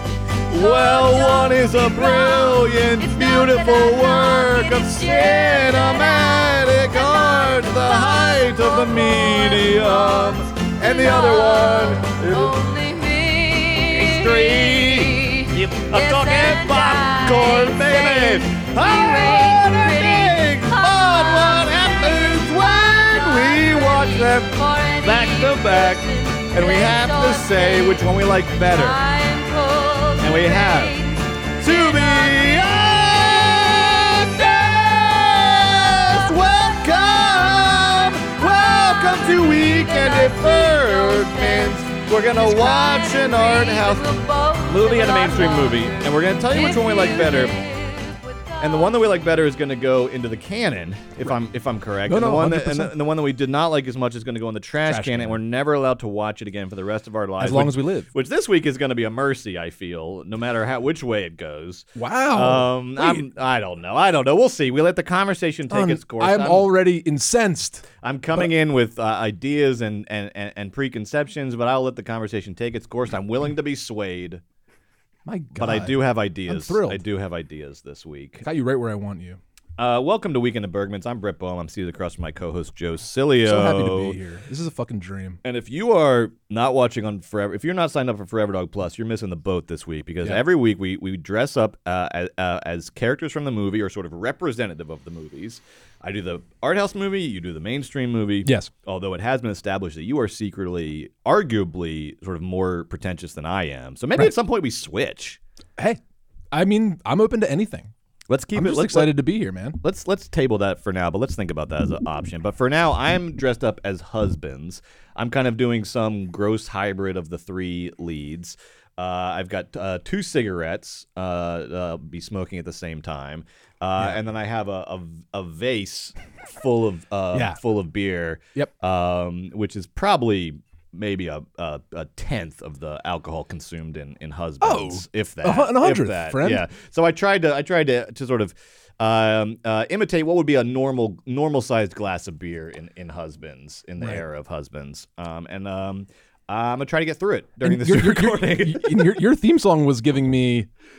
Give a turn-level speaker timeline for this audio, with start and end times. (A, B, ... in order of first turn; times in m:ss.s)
0:00.5-0:12.6 A
0:00.5-0:49.4 B
0:13.9-0:29.0 A
0:30.2-0:31.0 A
0:31.6-0:47.6 A
0:48.6-1:06.7 A
0:52.0-0:53.0 C
0:54.8-0:55.4 C
0:57.4-0:58.1 C
1:02.0-1:03.2 C
1:05.7-1:08.5 C
1:08.0-1:14.4 A
1:15.2-1:17.0 C
1:15.5-1:18.4 A
1:18.4-1:19.4 C
1:19.8-1:24.2 A
1:23.4-1:25.4 C
1:25.4-1:45.4 A
1:38.4-1:38.7 C
1:46.5-1:47.9 C
1:48.3-1:49.2 A
1:48.5-1:49.8 C
1:49.8-2:29.2 A
2:04.0-2:04.2 C
2:07.3-2:07.6 C
2:14.6-2:16.6 C
2:24.0-2:24.2 C
2:27.6-2:30.7 C